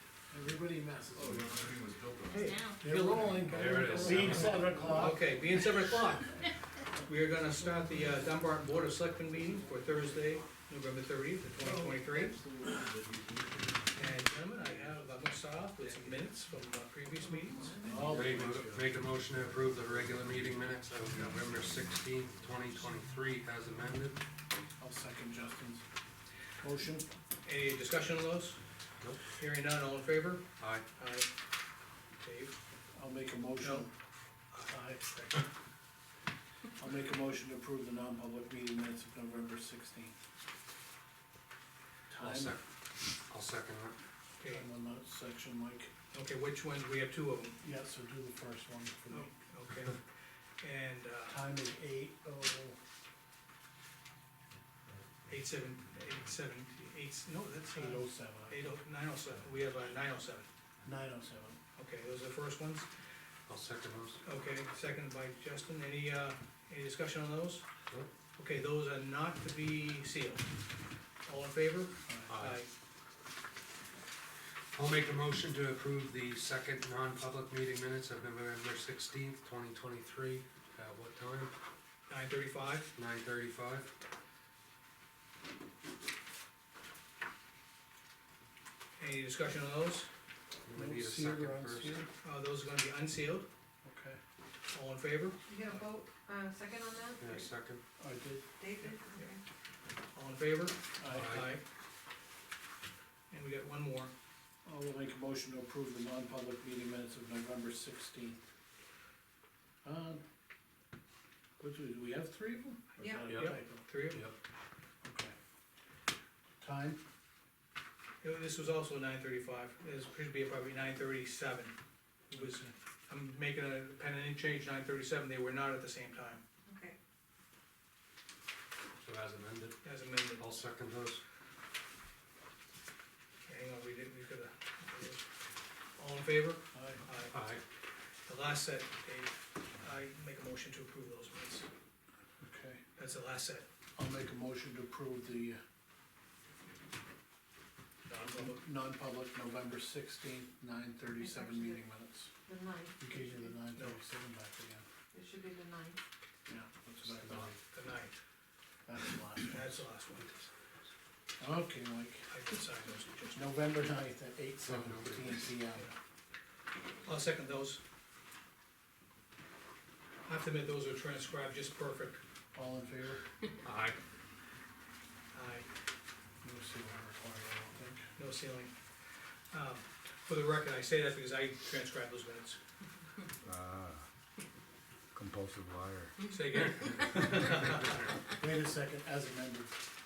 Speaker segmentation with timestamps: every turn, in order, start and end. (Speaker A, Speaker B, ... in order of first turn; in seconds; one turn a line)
Speaker A: 0.3-1.8
Speaker B: 1.1-5.0
Speaker A: 2.3-5.3
Speaker C: 2.3-3.1
Speaker D: 2.4-2.8
Speaker E: 3.4-4.7
Speaker C: 4.5-6.3
Speaker C: 7.0-12.3
Speaker A: 11.6-11.9
Speaker C: 13.9-17.8
Speaker A: 15.8-16.5
Speaker D: 17.3-18.0
Speaker A: 17.8-18.9
Speaker E: 18.0-24.2
Speaker B: 19.4-22.9
Speaker A: 24.8-25.8
Speaker A: 26.6-27.1
Speaker C: 27.4-28.6
Speaker E: 29.0-29.2
Speaker C: 29.3-30.4
Speaker E: 30.6-30.9
Speaker C: 30.9-31.3
Speaker C: 32.2-32.5
Speaker A: 32.9-33.9
Speaker C: 33.6-33.9
Speaker A: 34.6-35.4
Speaker A: 36.8-40.1
Speaker A: 42.1-42.6
Speaker E: 42.2-44.0
Speaker C: 44.4-44.6
Speaker A: 44.5-45.9
Speaker C: 46.1-47.6
Speaker A: 47.6-49.3
Speaker C: 49.1-50.0
Speaker C: 50.6-51.4
Speaker A: 51.2-52.8
Speaker C: 55.3-60.5
Speaker A: 57.7-58.7
Speaker A: 60.8-61.6
Speaker C: 61.8-62.9
Speaker E: 63.5-64.2
Speaker C: 64.2-67.6
Speaker C: 68.3-70.5
Speaker C: 71.2-72.7
Speaker A: 72.1-72.3
Speaker E: 72.3-72.6
Speaker E: 74.7-81.5
Speaker C: 82.1-82.9
Speaker E: 83.0-83.9
Speaker C: 89.0-90.1
Speaker E: 90.6-92.0
Speaker A: 90.7-92.1
Speaker C: 92.2-93.5
Speaker A: 93.8-94.2
Speaker C: 94.7-95.8
Speaker D: 95.4-97.5
Speaker E: 97.2-97.8
Speaker A: 98.0-98.5
Speaker D: 98.6-99.4
Speaker C: 98.8-99.4
Speaker C: 100.1-101.6
Speaker A: 101.0-101.5
Speaker E: 101.1-101.5
Speaker C: 103.3-104.1
Speaker A: 104.6-108.4
Speaker A: 109.8-110.2
Speaker A: 111.6-113.8
Speaker D: 113.0-113.3
Speaker E: 113.3-113.5
Speaker C: 113.3-114.3
Speaker E: 114.1-114.3
Speaker A: 115.0-115.3
Speaker A: 116.6-117.0
Speaker C: 118.2-121.7
Speaker C: 122.3-126.4
Speaker A: 122.3-122.7
Speaker D: 126.7-126.9
Speaker E: 129.0-131.2
Speaker C: 129.8-130.5
Speaker C: 133.4-135.3
Speaker C: 136.0-137.3
Speaker A: 136.7-137.1
Speaker E: 137.3-137.6
Speaker C: 138.2-141.7
Speaker A: 142.4-142.8
Speaker C: 142.9-143.7
Speaker A: 143.9-145.6
Speaker C: 148.1-148.6
Speaker A: 148.2-152.3
Speaker D: 151.1-151.8
Speaker D: 152.4-153.5
Speaker A: 153.0-154.8
Speaker C: 153.7-154.0
Speaker D: 155.1-156.0
Speaker A: 156.5-157.5
Speaker E: 157.0-157.6
Speaker C: 157.7-158.1
Speaker A: 158.8-159.9
Speaker C: 159.4-160.4
Speaker A: 161.4-162.3
Speaker C: 162.3-163.5
Speaker A: 163.3-165.9
Speaker E: 164.6-165.6
Speaker C: 167.0-167.8
Speaker C: 170.2-172.2
Speaker A: 172.5-173.2
Speaker E: 173.6-174.0
Speaker C: 175.3-175.7
Speaker A: 176.4-178.1
Speaker C: 178.2-178.7
Speaker C: 179.5-182.6
Speaker C: 186.3-188.1
Speaker A: 188.3-189.8